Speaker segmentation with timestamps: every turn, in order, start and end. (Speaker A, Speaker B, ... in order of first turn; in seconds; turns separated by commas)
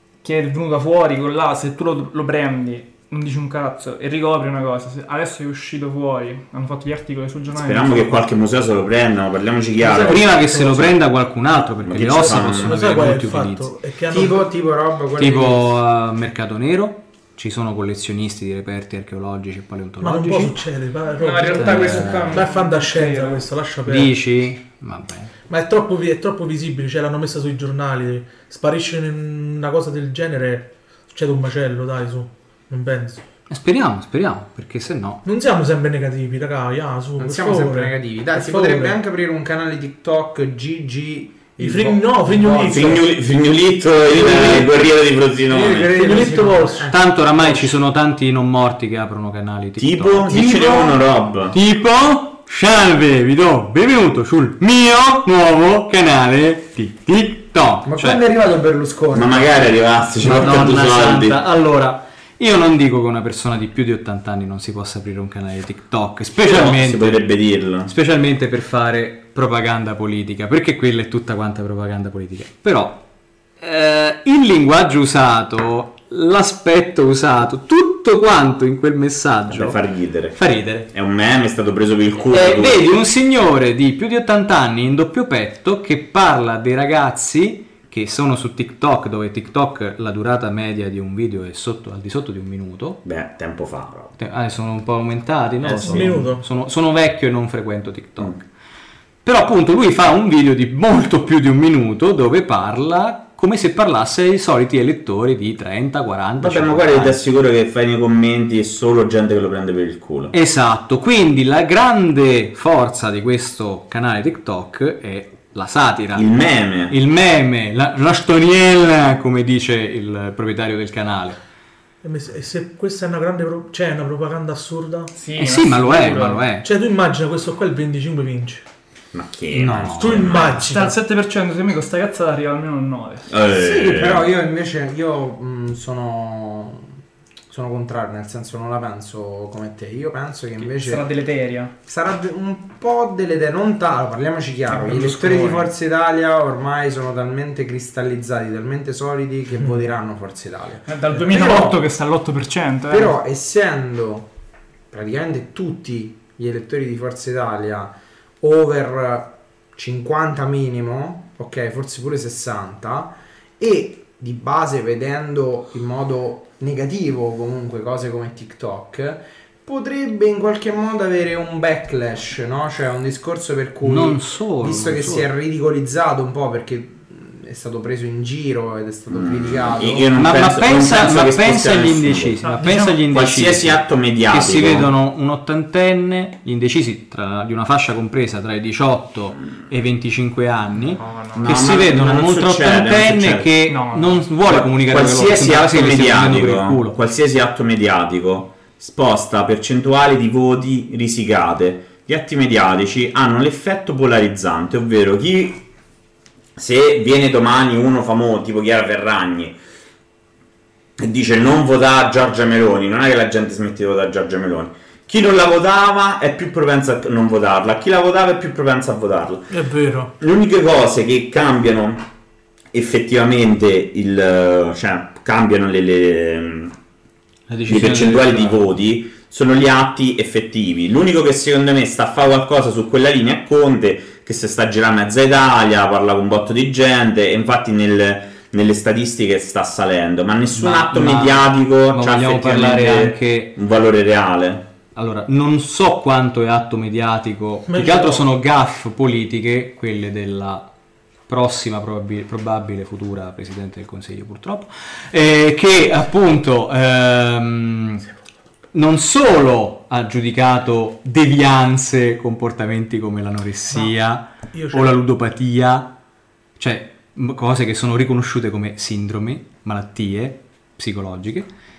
Speaker A: 0.2-8.3, Speaker B: 7.5-10.3, Speaker C: 9.8-10.9, Speaker D: 10.0-13.7, Speaker B: 11.8-12.8, Speaker C: 12.2-14.4, Speaker E: 14.1-15.7, Speaker D: 15.2-20.6, Speaker C: 20.0-24.1, Speaker A: 21.2-23.4, Speaker D: 21.5-22.5, Speaker D: 23.9-25.3, Speaker C: 25.5-33.2, Speaker D: 33.5-35.2, Speaker C: 35.2-39.0, Speaker E: 37.2-43.0, Speaker C: 41.6-43.0, Speaker B: 42.7-46.0, Speaker E: 44.1-44.9, Speaker D: 44.2-44.6, Speaker E: 45.5-47.6, Speaker C: 45.9-47.0, Speaker D: 46.9-50.4, Speaker B: 49.8-51.5, Speaker E: 50.3-51.0, Speaker D: 51.5-58.2, Speaker E: 57.8-59.7, Speaker B: 59.1-61.4, Speaker D: 60.2-67.2, Speaker B: 66.4-67.9, Speaker D: 67.8-73.0, Speaker D: 73.6-79.8, Speaker B: 79.5-80.4, Speaker D: 80.3-80.9, Speaker B: 80.9-83.0, Speaker D: 82.3-93.0, Speaker B: 93.0-94.1, Speaker D: 94.2-98.5, Speaker B: 95.6-96.1, Speaker C: 95.8-96.4, Speaker D: 99.2-107.2, Speaker B: 106.4-110.3, Speaker D: 110.3-116.3, Speaker B: 116.1-117.0, Speaker D: 116.9-121.4, Speaker C: 122.0-125.1, Speaker A: 125.1-126.5, Speaker D: 125.4-126.7, Speaker C: 126.6-128.6, Speaker B: 129.1-130.7, Speaker D: 129.5-130.5, Speaker C: 130.0-131.0, Speaker A: 130.6-133.3, Speaker B: 133.3-134.3, Speaker E: 133.5-136.9, Speaker E: 137.5-141.1, Speaker A: 140.7-141.7, Speaker E: 141.8-150.9, Speaker A: 144.7-145.7, Speaker A: 150.9-153.1, Speaker C: 151.2-151.8, Speaker E: 152.9-154.3, Speaker E: 154.9-180.1, Speaker D: 173.8-175.3, Speaker B: 179.1-182.4, Speaker D: 180.2-197.0, Speaker A: 182.4-183.0, Speaker B: 183.1-184.9, Speaker A: 191.0-191.5, Speaker B: 191.3-193.5, Speaker A: 193.7-194.2, Speaker B: 194.5-205.6, Speaker B: 206.6-209.6, Speaker B: 211.0-219.6, Speaker C: 219.5-220.1, Speaker B: 220.2-222.0, Speaker B: 222.7-226.7, Speaker D: 227.5-228.6, Speaker B: 227.7-244.7, Speaker D: 240.5-243.5, Speaker D: 244.9-250.7, Speaker C: 247.7-248.2, Speaker D: 251.3-258.1, Speaker D: 258.7-265.9, Speaker C: 264.5-265.0, Speaker D: 266.6-271.5